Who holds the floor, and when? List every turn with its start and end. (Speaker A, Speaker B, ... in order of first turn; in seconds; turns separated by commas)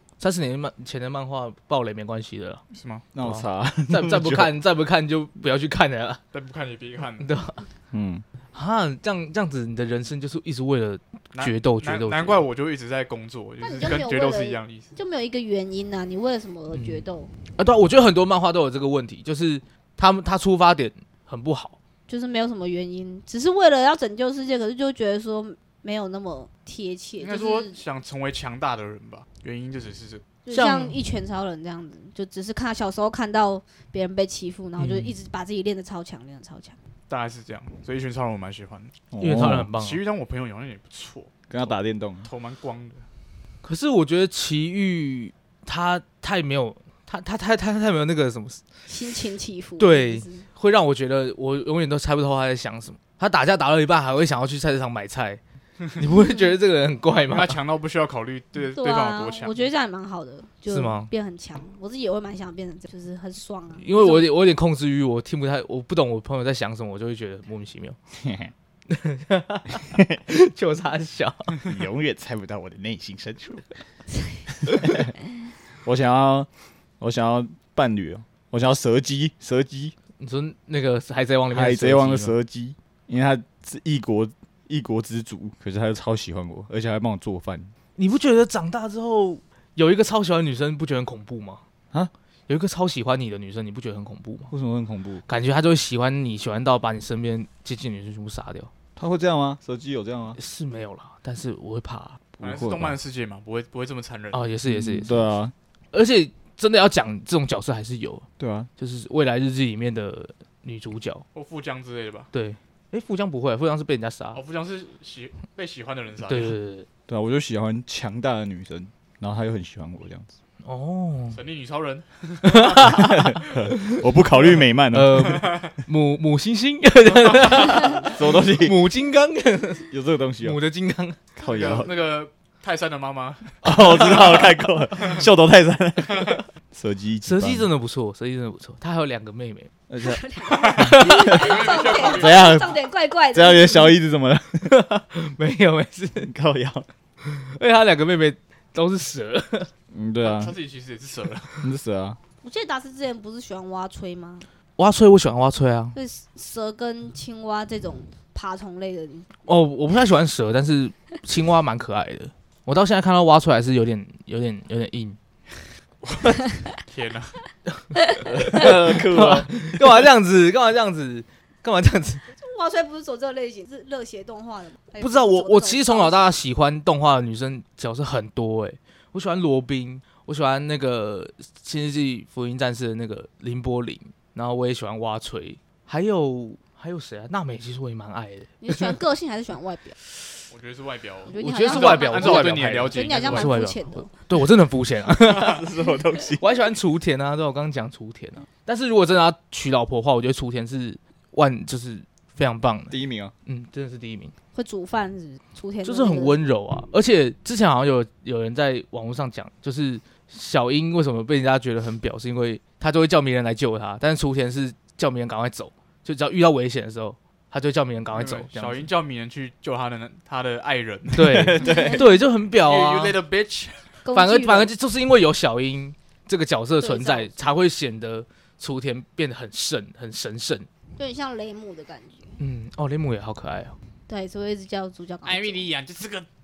Speaker A: 0.2-2.6, Speaker B: 2.7-3.0, Speaker C: 3.1-4.5, Speaker A: 3.2-6.2, Speaker B: 6.3-7.3, Speaker A: 7.2-7.6, Speaker C: 7.9-8.2, Speaker A: 8.5-12.4, Speaker B: 11.3-14.9, Speaker D: 13.6-17.3, Speaker A: 16.7-17.0, Speaker A: 17.6-21.8, Speaker D: 22.1-27.8, Speaker B: 27.2-30.2, Speaker D: 30.4-36.8, Speaker A: 30.5-31.0, Speaker A: 34.8-35.1, Speaker B: 37.1-38.9, Speaker C: 39.1-39.7, Speaker A: 39.2-40.0, Speaker B: 39.7-43.0, Speaker C: 41.5-42.3, Speaker A: 43.6-48.6, Speaker D: 48.9-50.5, Speaker A: 49.8-55.4, Speaker A: 55.9-57.6, Speaker B: 57.3-59.7, Speaker D: 58.7-64.3, Speaker A: 60.7-61.1, Speaker A: 63.8-68.0, Speaker C: 68.2-68.5, Speaker A: 68.9-71.6, Speaker C: 71.6-73.7, Speaker C: 74.6-75.1, Speaker C: 75.8-76.5, Speaker C: 77.0-79.9, Speaker A: 80.2-82.3, Speaker C: 81.5-87.7, Speaker A: 88.0-91.6, Speaker A: 92.5-94.5, Speaker C: 94.5-95.2, Speaker A: 95.3-98.7, Speaker C: 99.0-100.4, Speaker A: 100.4-102.2, Speaker C: 102.3-103.0, Speaker B: 102.4-104.4, Speaker A: 104.3-105.2, Speaker C: 104.7-105.5, Speaker A: 105.9-108.2, Speaker C: 108.4-108.7, Speaker A: 108.8-111.2, Speaker B: 111.3-112.3, Speaker A: 112.3-114.4, Speaker B: 114.3-116.5, Speaker A: 116.3-116.9, Speaker C: 117.1-120.3, Speaker A: 120.6-121.4, Speaker B: 121.3-123.2, Speaker A: 122.4-124.0, Speaker C: 122.8-125.4, Speaker A: 124.9-129.9, Speaker B: 125.3-125.7, Speaker B: 127.1-128.1, Speaker C: 128.0-128.8, Speaker C: 129.9-130.6, Speaker A: 130.4-131.2, Speaker C: 131.4-131.9, Speaker B: 131.4-134.4, Speaker C: 133.6-137.7, Speaker B: 135.0-135.2, Speaker A: 137.2-139.7, Speaker C: 139.9-140.2, Speaker D: 140.0-143.9, Speaker B: 140.5-142.6, Speaker A: 140.7-141.4, Speaker C: 142.0-142.8, Speaker C: 143.3-144.8, Speaker A: 144.7-146.3, Speaker C: 146.2-146.9, Speaker A: 147.2-149.7, Speaker C: 149.9-150.5, Speaker B: 150.2-151.5, Speaker C: 151.6-152.2, Speaker D: 152.4-154.5, Speaker A: 154.8-155.9, Speaker D: 155.9-159.3, Speaker A: 159.4-165.2, Speaker B: 166.0-166.3, Speaker B: 166.9-167.3, Speaker C: 168.2-169.7, Speaker A: 168.4-172.2, Speaker D: 172.3-176.4, Speaker A: 175.0-188.9, Speaker D: 188.6-190.0, Speaker B: 190.5-193.5, Speaker D: 191.3-194.1, Speaker A: 191.3-195.7, Speaker C: 195.3-196.4, Speaker A: 196.4-204.3, Speaker C: 202.9-203.3, Speaker D: 204.5-206.4, Speaker A: 205.8-218.9, Speaker B: 218.1-221.8, Speaker A: 221.1-223.2, Speaker C: 221.2-222.1, Speaker D: 221.6-222.0, Speaker B: 222.5-223.9, Speaker D: 224.0-224.7, Speaker A: 224.1-230.7, Speaker D: 226.8-227.4, Speaker D: 231.0-232.3, Speaker A: 232.4-233.7, Speaker D: 234.1-235.7, Speaker B: 235.2-236.2